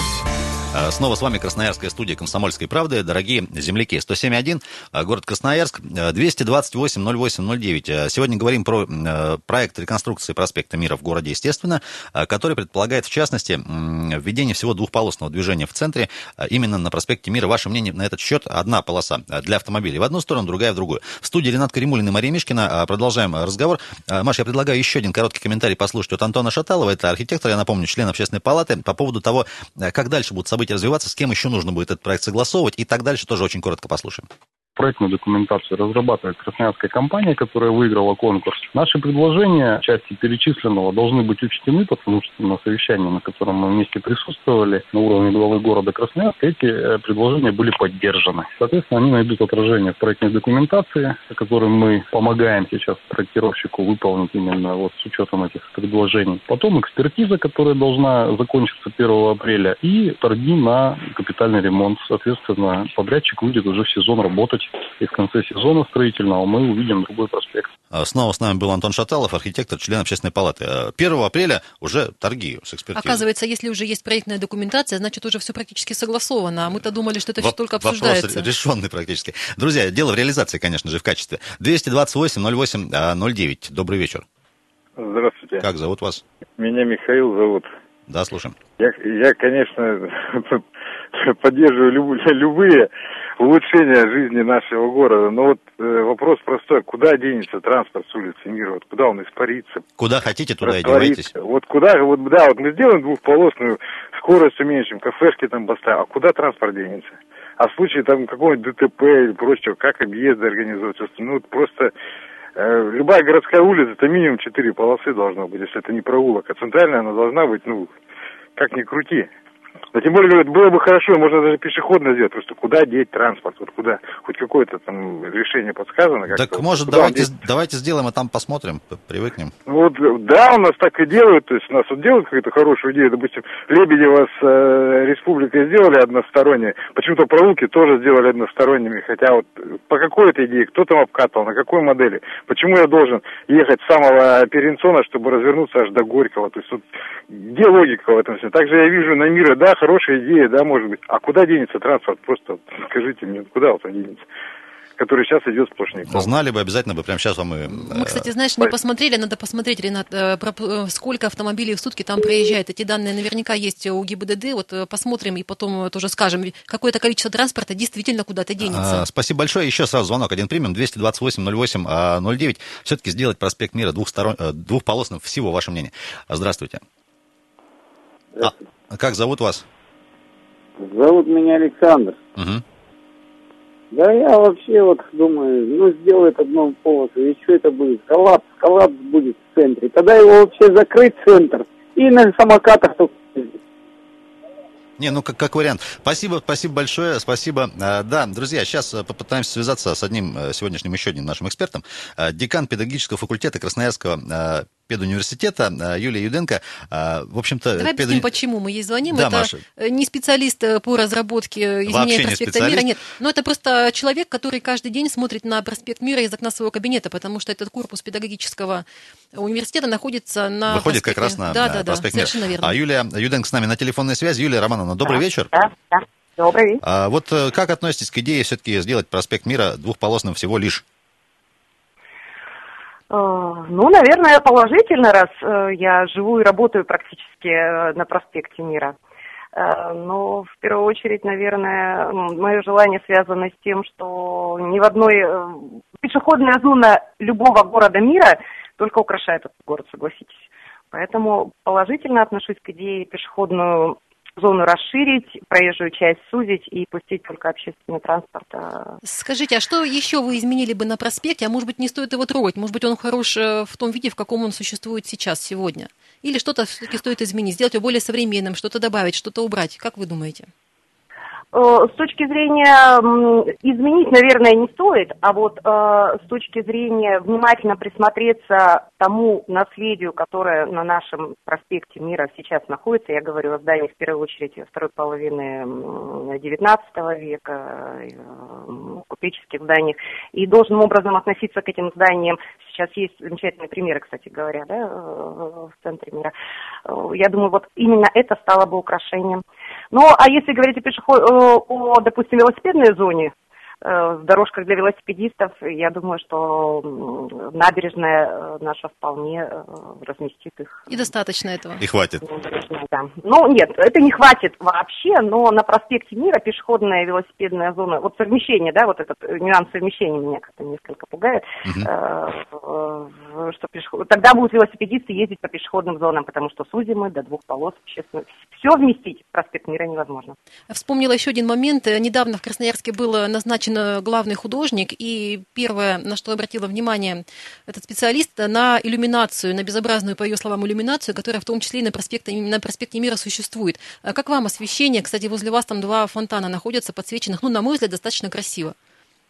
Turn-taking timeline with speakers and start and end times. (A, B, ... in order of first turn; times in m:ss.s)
0:00.7-0:34.3 A
0:34.8-1:07.7 B
1:07.9-1:13.2 A
1:12.9-1:18.5 C
1:17.4-1:24.2 A
1:25.0-1:25.6 D
1:25.6-1:26.2 A
1:26.6-1:27.7 D
1:28.1-1:28.6 A
1:28.8-1:30.6 D
1:31.1-1:39.8 D
1:40.0-1:41.3 A
1:40.6-1:51.9 D
1:52.6-1:57.9 D
1:58.6-1:59.3 D
1:59.9-2:07.3 D
2:06.3-2:09.5 A
2:09.7-2:34.2 D
2:35.0-2:36.3 D
2:36.0-2:38.3 A
2:37.7-2:49.0 C
2:48.6-2:56.8 A
2:58.4-2:59.6 A
3:00.8-3:02.2 E
3:02.4-3:02.6 A
3:03.9-3:13.5 E
3:15.0-3:28.3 A
3:27.8-3:42.8 C
3:29.1-3:29.6 A
3:31.8-3:32.9 A
3:40.7-3:45.5 A
3:45.0-3:46.8 F
3:46.8-3:50.8 A
3:53.1-3:58.9 F
3:59.5-4:19.0 F
4:19.0-4:30.5 C
4:31.5-4:56.3 F
4:56.8-5:10.9 F
5:10.9-5:11.8 C
5:11.8-5:12.2 A
5:12.2-5:30.4 F
5:30.7-5:48.7 C